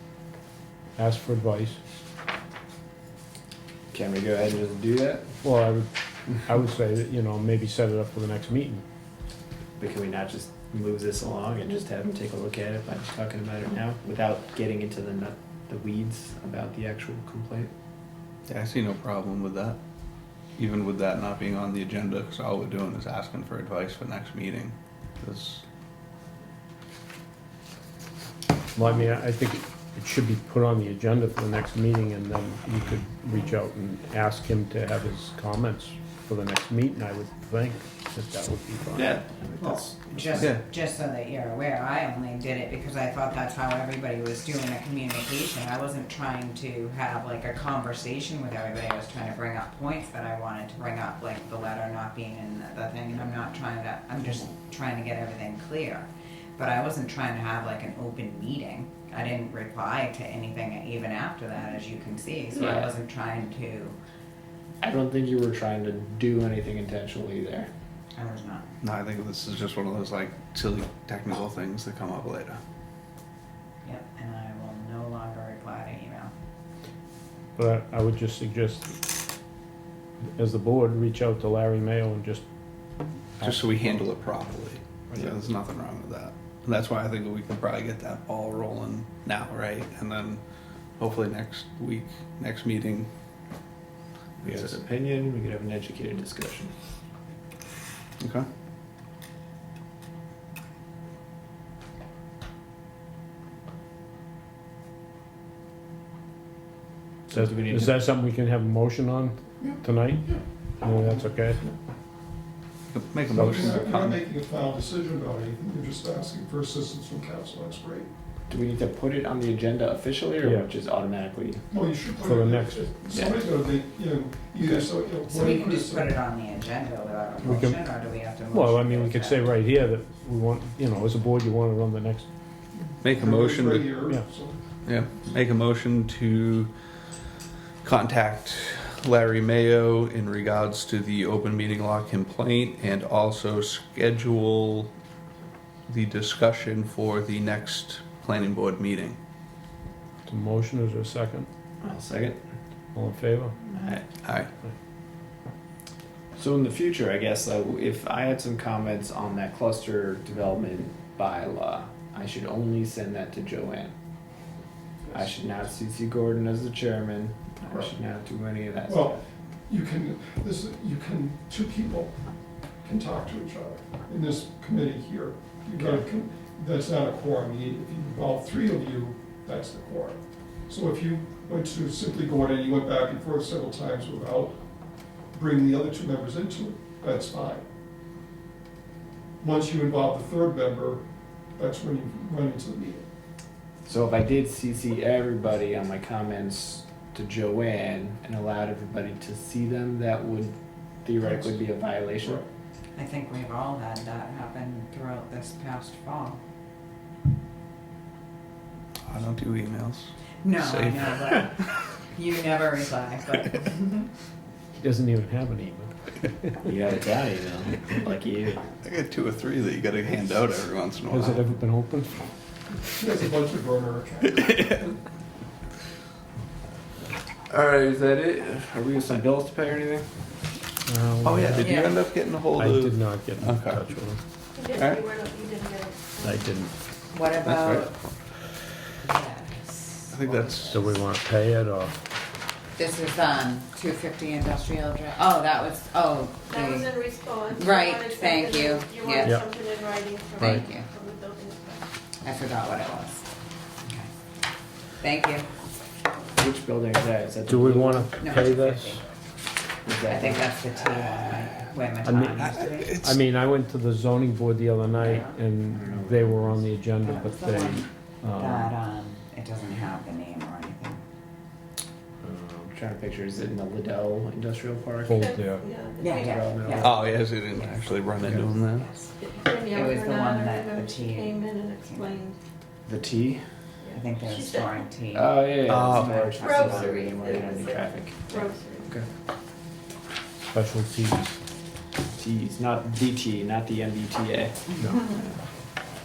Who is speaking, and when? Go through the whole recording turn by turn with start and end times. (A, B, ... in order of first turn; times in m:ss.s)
0:01.0-0:01.8 A
0:03.9-0:05.3 B
0:05.4-0:08.8 A
0:09.8-0:17.7 B
0:18.5-0:19.8 C
0:20.6-0:25.6 C
0:28.7-0:39.2 A
0:39.1-0:40.2 B
0:39.6-1:04.0 D
0:40.4-0:40.6 C
1:04.8-1:07.7 B
1:08.2-1:08.6 D
1:08.8-1:12.6 C
1:13.8-1:16.3 D
1:17.6-1:19.0 A
1:20.4-1:22.4 A
1:23.4-1:30.4 C
1:31.0-1:33.1 C
1:34.4-1:36.7 B
1:34.4-1:34.7 C
1:38.2-1:38.5 C
1:47.3-1:47.9 B
1:47.3-1:50.3 A
1:49.6-1:50.4 E
1:50.8-1:51.7 A
1:52.9-1:54.2 C
1:53.3-1:58.1 E
1:53.4-1:53.8 A
1:58.5-2:01.6 B
2:00.4-2:00.7 A
2:01.7-2:06.2 E
2:02.2-2:02.9 A
2:03.1-2:03.4 B
2:05.3-2:09.5 D
2:07.4-2:07.8 A
2:08.5-2:12.3 A
2:13.0-2:13.9 C
2:13.2-2:14.6 E
2:14.8-2:16.7 C
2:17.8-2:24.9 C
2:25.9-2:29.2 C
2:30.3-2:31.5 A
2:31.8-2:32.4 B
2:32.9-2:33.6 A
2:34.2-2:34.5 C
2:36.4-2:43.9 B
2:45.1-2:49.2 B
2:48.9-2:52.1 E
2:52.8-3:04.6 E
3:05.3-3:07.6 E
3:09.4-3:11.0 E
3:11.6-3:13.0 E
3:13.9-3:22.4 B
3:21.2-3:21.5 E
3:23.0-3:26.4 D
3:29.1-3:31.7 C
3:30.4-3:31.6 D
3:32.1-3:34.1 D
3:34.8-3:36.5 A
3:36.6-3:38.6 B
3:38.8-3:41.4 C
3:41.1-3:42.2 A
3:42.9-3:44.8 E
3:44.3-3:44.9 C
3:47.5-3:50.1 B
3:50.9-3:51.8 A
3:51.2-3:53.8 C
3:51.6-3:52.0 D
3:52.6-3:54.2 A
3:54.6-3:56.5 F
3:54.7-3:55.1 C
3:56.2-3:56.7 A
3:57.1-3:57.9 D
3:57.4-3:57.9 C
3:59.0-4:01.0 D
4:00.1-4:00.9 C
4:00.7-4:02.0 A
4:02.8-4:09.4 D
4:06.5-4:11.9 F
4:10.4-4:10.9 D
4:12.2-4:13.2 D
4:13.8-4:14.1 D
4:15.0-4:15.5 D
4:16.4-4:18.1 B
4:17.5-4:19.0 A
4:18.2-4:19.0 D
4:19.9-4:20.5 B
4:20.1-4:22.9 D
4:22.0-4:28.7 A
4:22.4-4:23.2 C
4:24.9-4:25.3 D
4:25.7-4:26.7 B
4:27.0-4:31.0 D
4:32.2-4:32.7 A
4:32.7-4:35.4 B
4:35.1-4:35.6 A
4:35.1-4:36.5 F
4:36.0-4:37.0 D
4:36.1-4:37.1 B
4:36.8-4:38.9 C
4:37.5-4:39.1 D
4:39.2-4:42.4 F
4:39.6-4:42.2 D
4:42.9-4:43.4 B
4:43.8-4:44.9 F
4:43.9-4:47.6 D
4:45.1-4:49.1 B
4:45.7-4:46.3 C
4:46.2-4:48.9 F
4:50.5-4:51.4 A
4:52.2-4:55.4 B